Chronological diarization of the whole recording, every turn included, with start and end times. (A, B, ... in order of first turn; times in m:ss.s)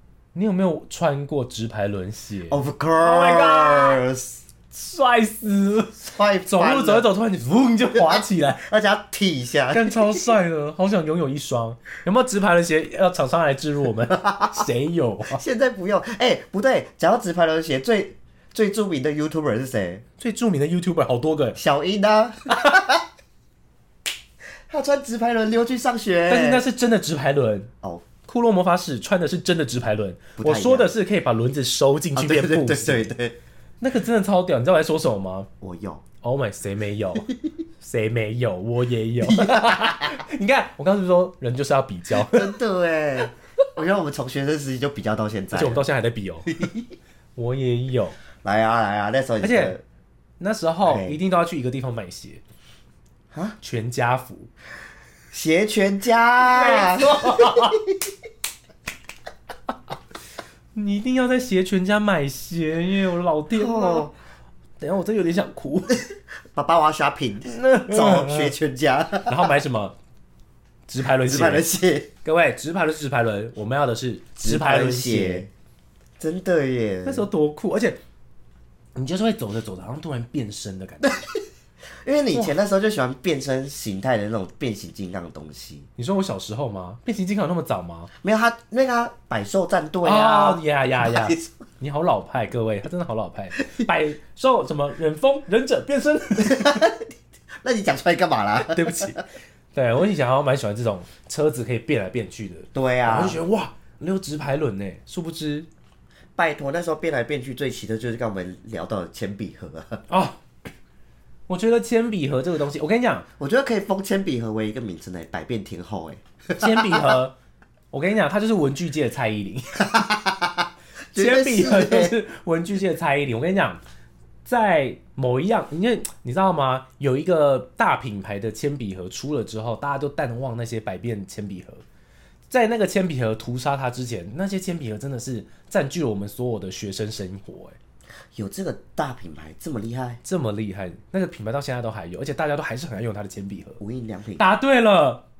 0:00.3-0:04.0 A
0:02.5-0:04.4 B
0:04.7-0:08.6 A
0:06.0-0:07.1 B
0:07.9-0:10.3 B
0:09.7-0:15.4 A
0:14.1-0:14.6 B
0:15.3-0:20.0 B
0:20.2-0:21.6 A
0:21.6-0:23.0 B
0:24.7-0:26.6 B
0:26.3-0:27.7 A
0:27.8-0:28.1 B
0:28.2-0:33.1 A
0:30.4-0:30.9 B
0:32.2-0:33.4 B
0:33.8-0:35.5 A
0:35.6-0:36.0 B
0:36.2-0:42.5 A
0:39.2-0:40.2 B
0:42.1-0:45.8 B
0:45.5-0:46.6 A
0:46.5-0:46.9 B
0:47.4-0:48.2 A
0:48.4-0:49.8 B
0:49.4-0:49.8 A
0:50.4-0:52.4 A
0:50.8-0:51.2 B
0:53.3-0:53.6 B
0:53.6-0:54.5 A
0:55.3-0:58.0 B
0:56.4-0:57.8 A
1:00.7-1:04.1 A
1:03.5-1:04.1 B
1:04.8-1:06.0 A
1:06.5-1:09.5 B
1:07.4-1:08.5 A
1:09.2-1:09.9 A
1:10.9-1:11.6 A
1:11.2-1:12.1 B
1:12.2-1:15.4 A
1:14.4-1:15.5 B
1:16.2-1:17.3 B
1:17.0-1:18.0 A
1:19.0-1:21.2 A
1:21.0-1:21.4 B
1:22.0-1:25.9 B
1:26.0-1:28.1 A
1:28.2-1:31.5 B
1:30.0-1:36.8 A
1:36.4-1:37.1 B
1:37.6-1:39.2 B
1:38.6-1:45.7 A
1:42.7-1:43.4 B
1:46.4-1:50.0 B
1:50.1-1:50.4 A
1:51.5-1:53.2 A
1:53.4-1:57.2 B
1:56.6-1:57.3 A
1:57.9-1:59.9 A
1:59.8-2:02.1 B
2:01.1-2:03.8 A
2:04.4-2:11.8 A
2:12.5-2:17.8 A
2:18.3-2:20.2 B
2:20.2-2:23.8 A
2:23.8-2:24.5 B
2:24.4-2:25.2 A